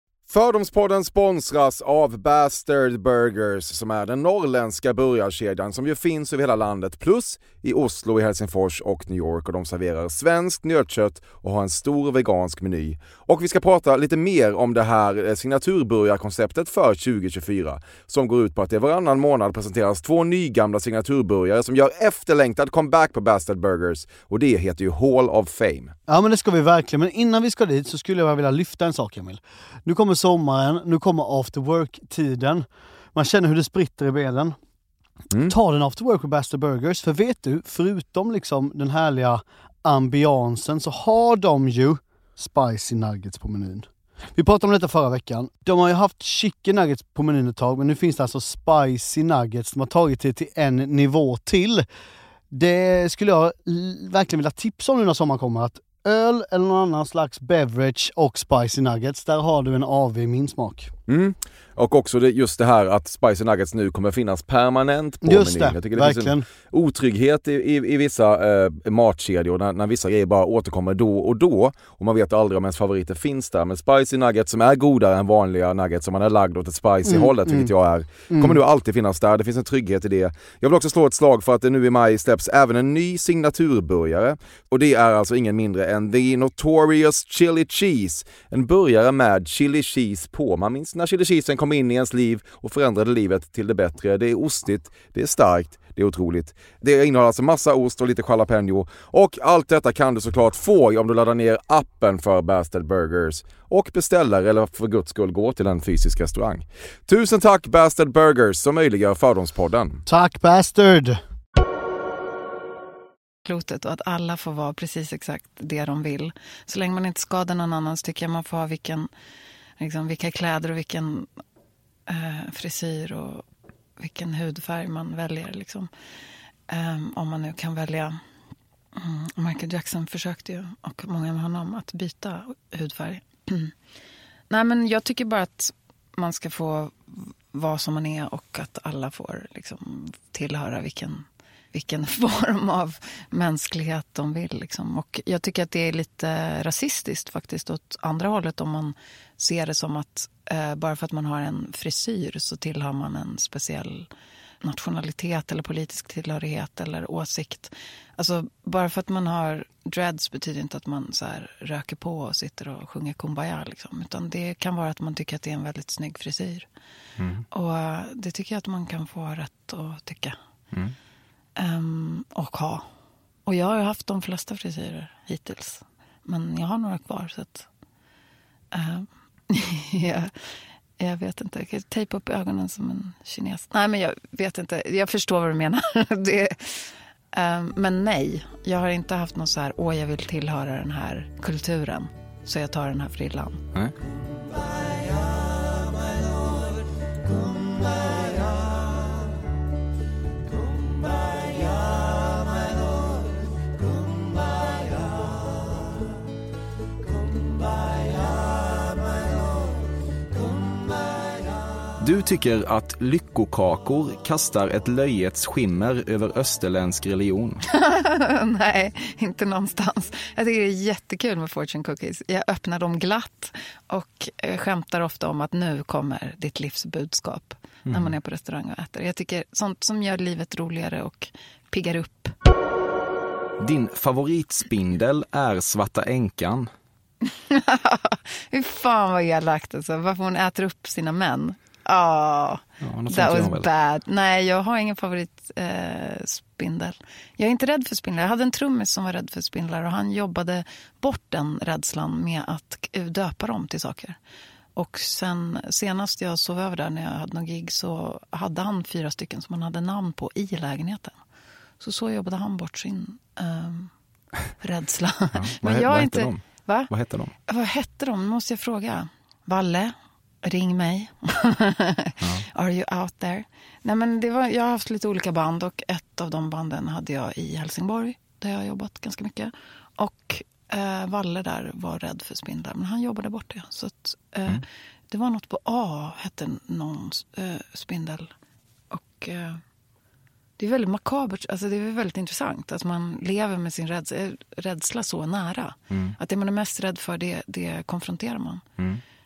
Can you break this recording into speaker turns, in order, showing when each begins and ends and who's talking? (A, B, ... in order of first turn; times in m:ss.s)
0:00.3-0:26.0 A
0:26.1-0:34.6 B
0:35.5-0:51.8 B
0:52.5-1:00.9 B
1:01.1-1:50.0 A
1:05.2-1:06.5 B
1:17.0-1:17.7 B
1:18.3-1:18.6 B
1:50.1-1:51.2 B
1:53.5-1:59.1 C
1:59.8-2:01.3 C
2:02.1-2:03.4 C
2:04.0-2:05.9 C
2:06.7-2:08.2 C
2:09.0-2:13.7 C
2:14.5-2:34.1 C
2:34.6-2:46.7 C
2:47.2-2:47.4 D
2:47.5-2:50.4 C
2:51.6-2:52.9 C
2:53.5-2:57.7 C
2:58.7-3:13.6 C
3:32.0-3:37.6 D
3:37.7-3:52.3 C
3:47.9-3:48.1 D
3:53.6-3:56.7 D
3:57.3-4:14.2 C
4:02.8-4:03.7 D
4:14.8-4:21.2 C
4:21.8-4:23.9 C
4:24.6-4:26.9 C
4:25.4-4:27.3 D
4:27.5-4:48.3 C
4:48.9-4:49.6 C
4:50.6-4:58.6 C
4:55.9-4:56.2 D
4:58.8-4:59.0 D